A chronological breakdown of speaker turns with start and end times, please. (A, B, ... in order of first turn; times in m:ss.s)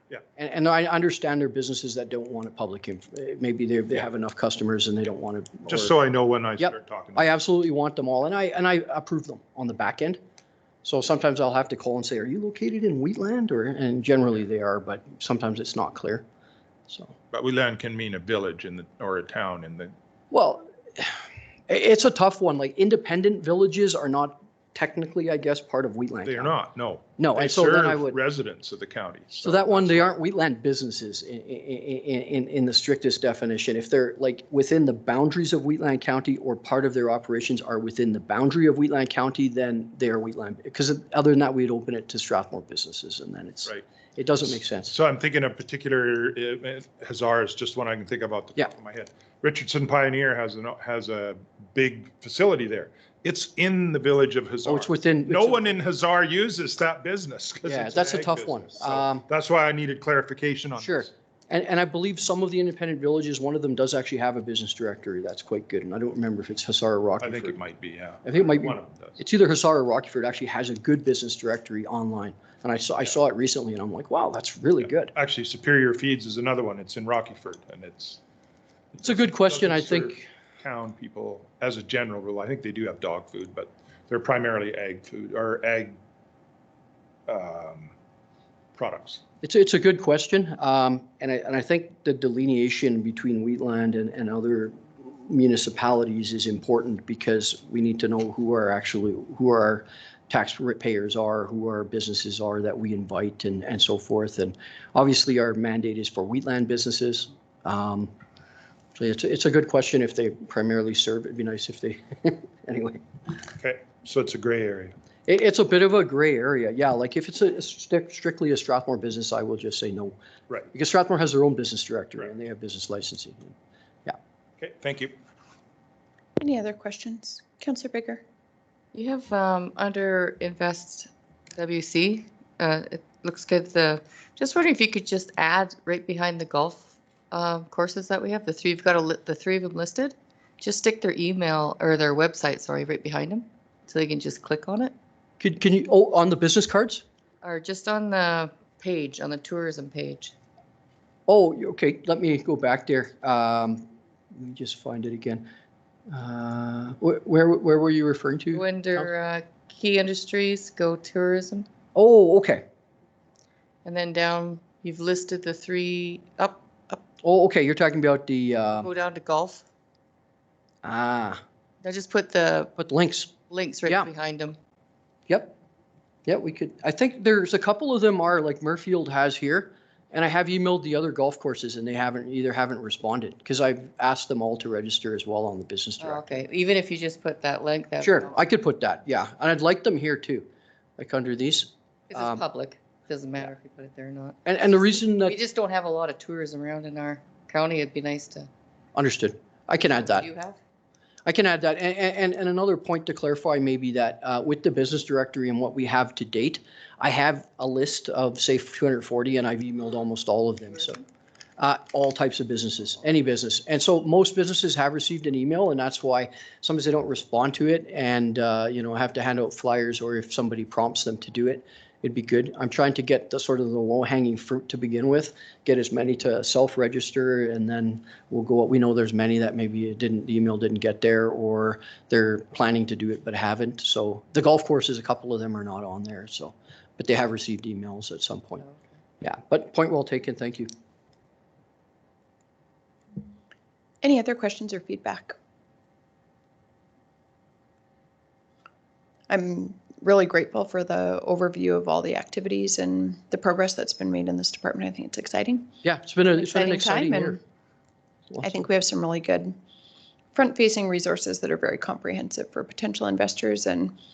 0:00.4-0:05.9 A
0:05.7-0:07.3 B
0:06.6-0:10.2 A
0:10.8-0:16.2 A
0:16.9-0:17.1 A
0:17.3-0:19.9 B
0:20.3-0:26.5 A
0:26.2-0:30.1 B
0:27.2-0:28.2 A
0:29.4-0:44.9 A
0:44.5-1:01.1 B
0:54.6-0:55.7 A
0:57.6-0:59.2 A
1:00.8-1:07.6 A
1:07.2-1:09.2 B
1:08.2-1:15.1 A
1:14.8-1:18.2 B
1:18.9-1:26.0 B
1:19.0-1:20.3 A
1:27.3-1:27.9 B
1:28.7-1:29.2 B
1:29.4-1:48.1 A
1:49.0-1:53.0 A
1:53.6-1:54.9 B
1:55.3-2:00.2 A
2:00.7-2:04.2 A
2:04.6-2:05.2 B
2:06.4-2:08.2 C
2:08.9-2:24.9 D
2:25.4-2:27.0 A
2:27.4-2:30.3 D
2:31.3-2:35.4 A
2:36.1-2:39.1 A
2:38.5-2:41.7 D
2:41.9-2:42.6 A
2:43.8-2:47.0 D
2:47.2-2:48.9 A
2:48.8-2:49.6 D
2:50.8-2:51.4 A
2:51.8-2:52.7 D
2:52.8-2:53.3 A
2:53.5-2:54.6 D
2:53.8-2:54.1 A
2:55.3-2:55.6 A
2:56.2-3:06.4 A
3:06.0-3:08.3 D
3:08.0-3:10.5 A
3:11.0-3:12.4 A
3:12.1-3:14.4 D
3:14.4-3:15.4 A
3:15.2-3:18.5 D
3:18.9-3:20.3 A
3:20.0-3:20.6 D
3:21.2-3:31.0 A
3:31.6-3:58.6 A
3:59.2-4:00.7 A
4:04.0-4:05.4 C
4:09.3-4:15.7 C
4:15.8-4:17.4 A
4:16.4-4:17.4 C
4:18.3-4:18.6 A
4:18.4-4:19.6 C
4:20.3-4:23.9 C